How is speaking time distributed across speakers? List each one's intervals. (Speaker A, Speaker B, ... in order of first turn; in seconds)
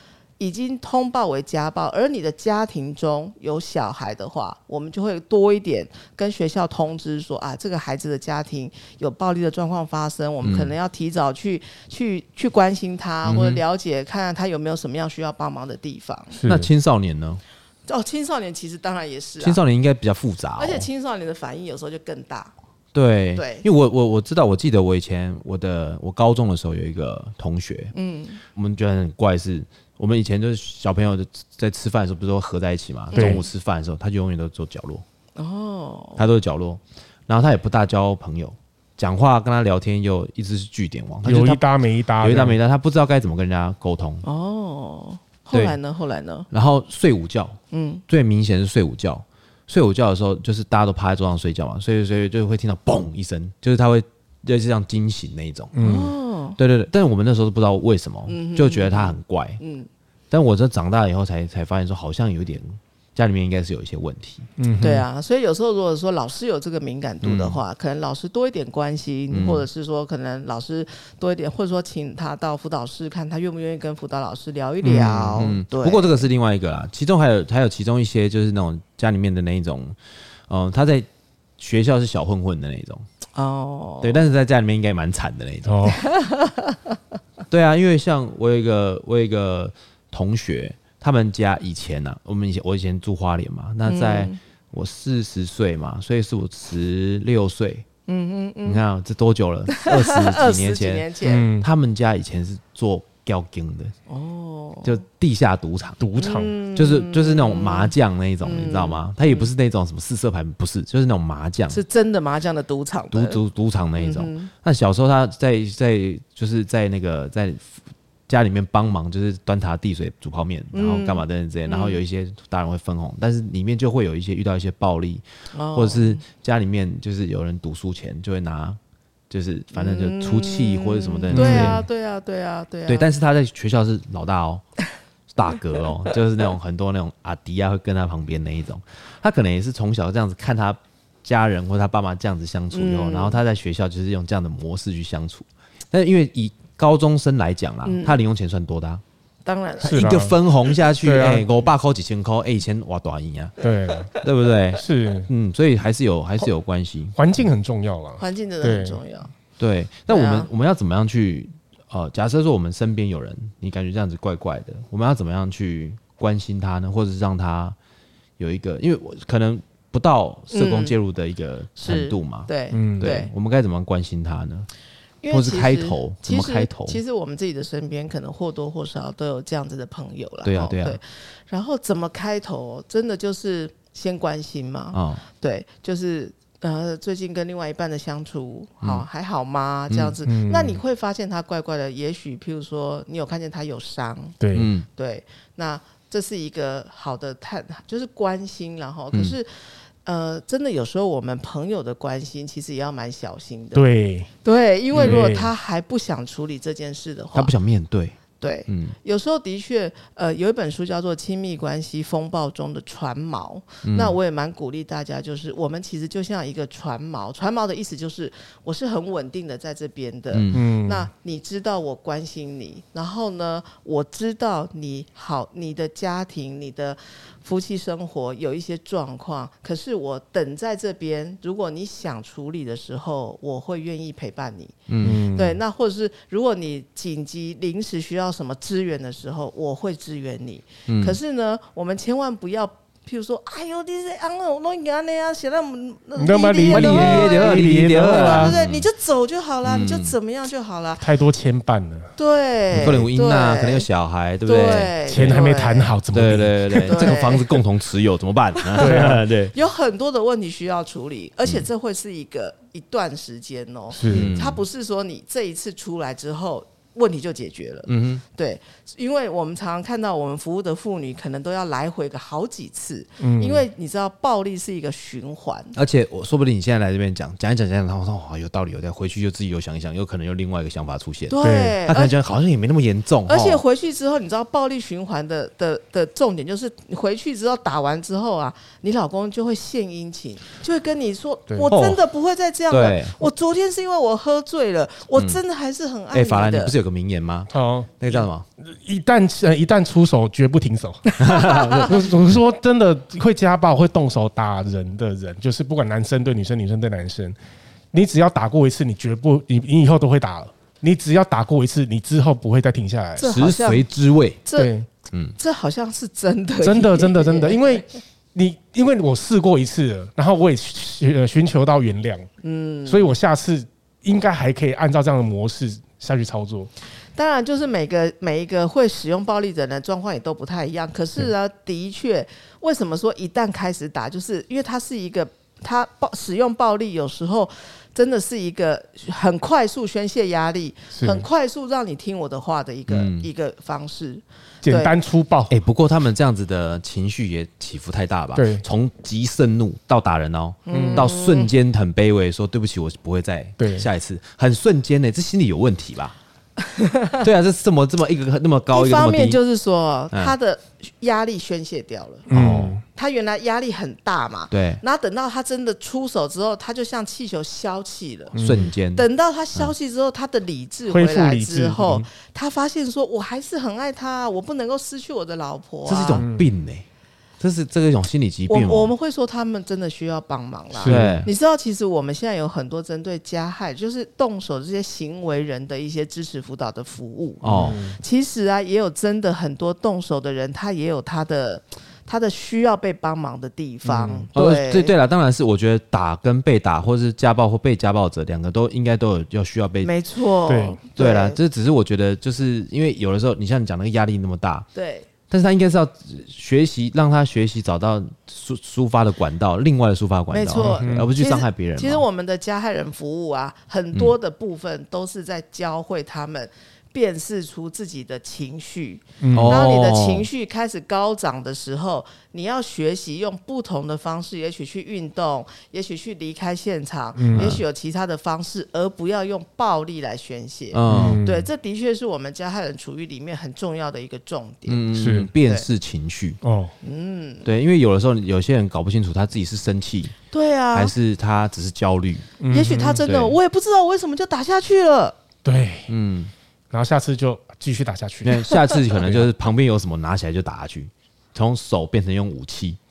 Speaker A: 0.4-16.4, 17.9-19.6, 20.6-22.5, 23.4-23.6, 27.9-28.4, 33.1-33.5, 35.4-36.2, 44.2-46.5, 47.7-48.0, 55.8-56.6, 58.2-59.9, 64.8-76.3, 83.3-84.3, 85.8-87.0, 93.8-94.4, 98.1-98.8, 99.7-101.5, 104.1-105.0, 106.2-109.5, 111.7-113.4, 114.0-114.5, 120.7-122.0, 125.5-126.2, 129.7-133.1, 142.7-143.4, 147.8-148.2, 149.4-150.1, 158.2-159.3, 160.1-160.5, 170.5-170.9, 171.8-173.3, 175.2-194.4, 194.9-199.5, 200.0-203.8, 204.4-207.5, 208.4-251.1, 252.2-253.8, 254.4-256.0, 256.9-257.6, 258.7-275.7, 281.3-282.1, 283.2-296.7, 301.1-301.9, 313.2-313.9, 314.4-314.7, 315.4-317.8, 322.4-323.1, 327.1-344.9, 350.7-351.5, 356.7-357.2, 358.7-362.3, 362.9-376.2, 378.5-394.9, 399.8-401.4, 404.7-405.1, 410.3-434.8, 436.8-437.5, 440.3-440.9, 442.5-445.1
Speaker B: 10.4-10.7, 13.2-13.6, 16.5-17.4, 19.4-20.9, 22.9-27.9, 28.5-35.0, 36.2-41.6, 42.2-44.2, 46.5-55.8, 56.6-59.6, 60.3-64.5, 67.2-67.6, 69.3-69.7, 74.8-80.0, 80.5-81.1, 81.6-83.0, 84.0-85.8, 87.5-97.8, 98.6-103.9, 104.8-106.0, 106.7-111.8, 113.1-117.7, 118.3-128.8, 129.3-131.8, 132.9-134.6, 135.3-149.0, 149.8-153.6, 154.2-157.2, 159.6-167.8, 168.4-174.7, 175.3-177.0, 180.4-181.0, 184.9-185.2, 189.9-190.1, 194.5-194.8, 204.9-205.2, 207.3-208.9, 213.8-214.2, 220.3-220.6, 234.9-235.2, 240.9-241.2, 246.7-248.9, 249.6-250.1, 252.7-255.5, 256.1-259.5, 264.1-264.6, 267.9-268.2, 275.7-283.6, 291.7-292.0, 292.7-293.1, 295.1-295.4, 296.1-298.4, 301.2-302.1, 313.2-314.4, 342.9-343.3, 345.5-356.1, 357.2-359.4, 362.3-362.8, 364.5-364.8, 368.4-369.7, 375.9-376.8, 377.4-378.9, 380.8-381.3, 387.4-387.8, 394.3-399.9, 400.9-404.7, 405.3-412.0, 419.3-420.3, 427.3-427.6, 430.7-431.2, 434.7-436.4, 437.4-440.1, 440.7-442.3, 443.0-443.4, 445.9-446.3, 448.2-452.8
Speaker C: 16.3-16.7, 33.1-33.4, 41.2-42.5, 55.7-56.1, 64.6-65.0, 85.6-86.0, 101.2-101.7, 106.0-106.5, 131.3-131.8, 149.8-150.4, 151.0-151.4, 153.6-154.1, 154.8-155.3, 157.2-159.0, 172.7-173.1, 190.2-190.8, 194.4-194.7, 203.7-204.3, 205.0-205.5, 220.5-221.1, 235.0-235.6, 246.2-248.5, 251.0-252.1, 255.1-257.2, 258.8-259.2, 263.9-264.3, 273.2-273.6, 281.4-281.8, 291.5-291.8, 297.5-297.9, 298.6-307.4, 307.9-313.3, 314.6-314.9, 316.6-322.3, 322.9-326.7, 340.9-341.3, 344.6-345.5, 348.3-348.6, 350.7-351.1, 353.6-353.9, 362.3-362.8, 368.3-368.7, 370.9-372.1, 376.2-376.5, 380.7-381.2, 387.4-388.0, 393.9-394.2, 400.5-400.8, 410.5-411.1, 419.2-419.6, 427.1-427.6, 430.9-431.5, 434.9-435.3, 436.4-436.7, 442.4-443.0, 445.4-445.9, 446.7-449.3